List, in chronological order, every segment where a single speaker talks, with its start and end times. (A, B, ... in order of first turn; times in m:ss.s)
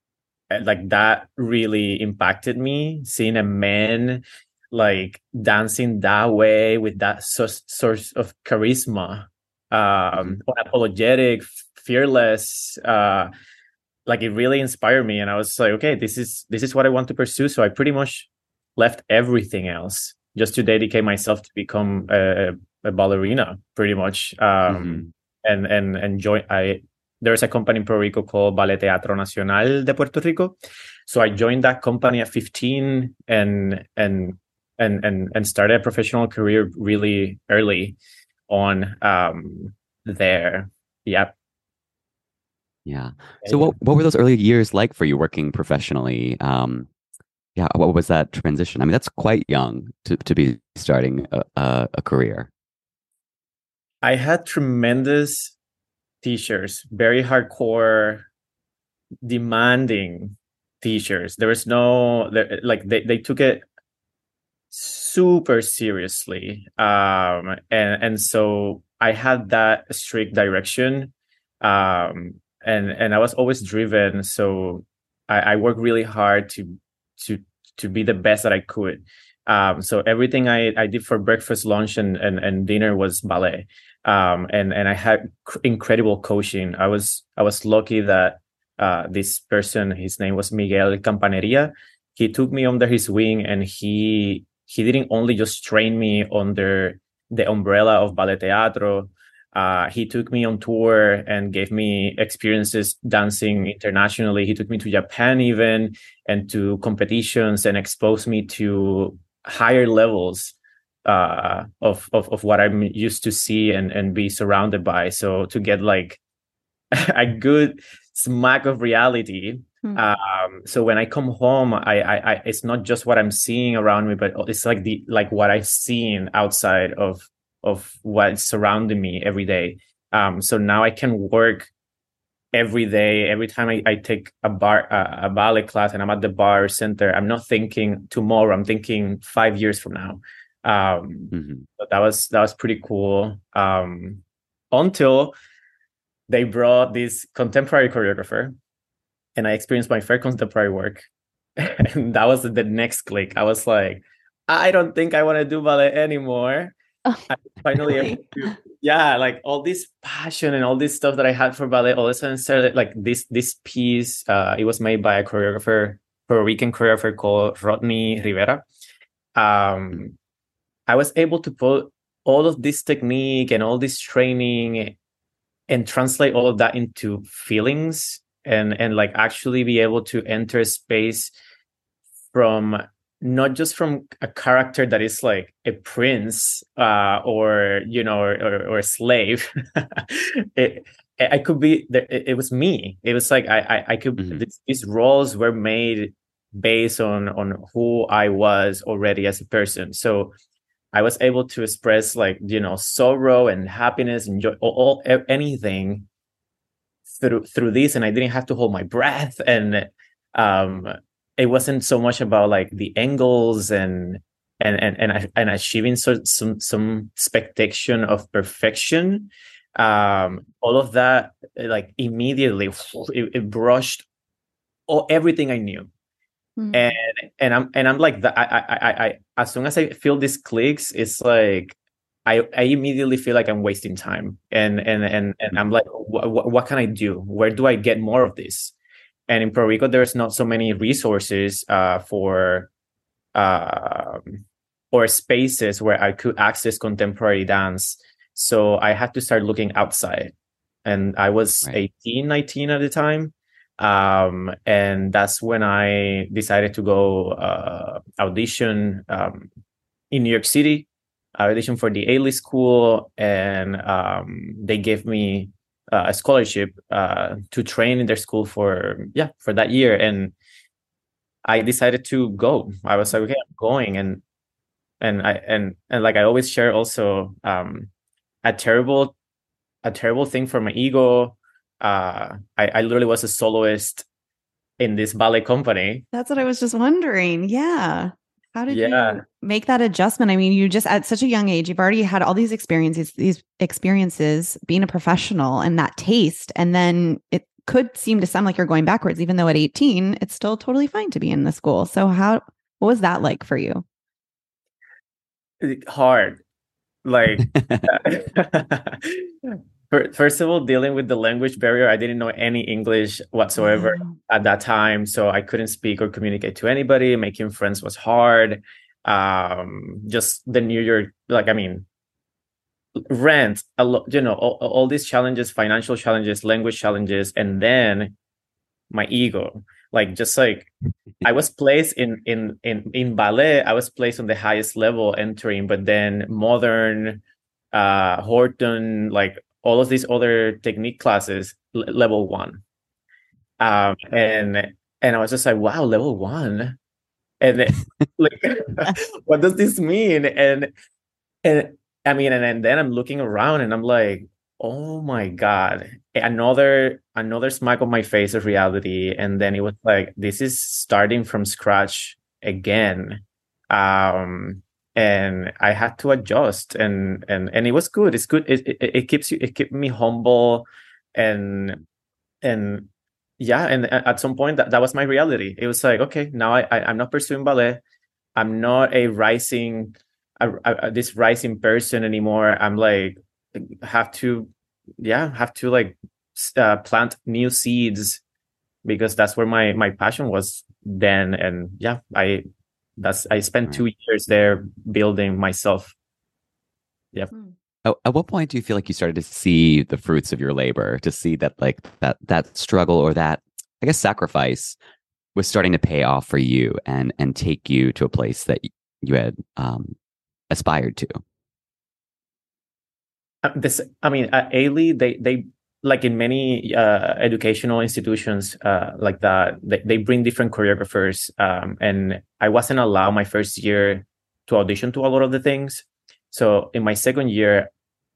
0:00.5-0:13.3 A
0:14.1-0:30.6 A
0:24.7-0:25.1 B
0:31.1-0:38.0 A
0:38.5-0:41.3 A
0:42.8-0:46.9 B
0:43.4-0:43.7 A
0:47.6-0:52.5 B
0:54.0-0:55.5 A
0:56.2-0:58.3 A
0:59.2-1:03.6 A
1:04.7-1:50.5 A
1:51.0-1:56.2 A
1:56.9-2:11.7 A
2:12.5-2:25.3 A
2:21.3-2:21.6 B
2:26.3-2:28.6 A
2:29.4-2:36.7 A
2:37.3-2:48.6 A
2:37.8-2:38.2 C
2:49.3-2:50.1 A
2:50.9-2:54.9 A
2:55.7-3:01.3 A
3:02.3-3:20.3 A
3:20.9-3:26.0 A
3:27.1-3:44.0 A
3:44.9-3:45.9 A
3:46.6-3:46.8 C
3:46.7-3:58.7 A
3:59.3-4:02.7 A
4:03.3-4:04.4 A
4:04.9-4:10.3 A
4:10.8-4:19.5 A
4:20.1-4:30.3 A
4:31.4-4:34.2 A
4:35.0-4:37.9 A
4:38.4-4:39.1 A
4:39.8-4:44.0 A
4:44.8-4:46.0 A
4:46.1-5:03.8 C
4:48.7-4:49.2 A
5:05.6-5:06.4 A
5:07.0-5:21.8 A
5:13.6-5:14.1 C
5:23.1-5:28.1 A
5:28.9-5:30.7 A
5:31.2-5:37.2 A
5:37.7-5:42.6 A
5:43.6-5:46.8 A
5:47.4-5:50.7 A
5:51.4-6:11.8 A
6:12.4-6:17.8 A
6:18.4-6:28.2 A
6:28.8-6:32.4 A
6:33.0-6:35.9 A
6:37.8-6:44.8 B
6:45.3-6:50.0 B
6:50.5-6:51.2 B
6:53.4-7:07.7 A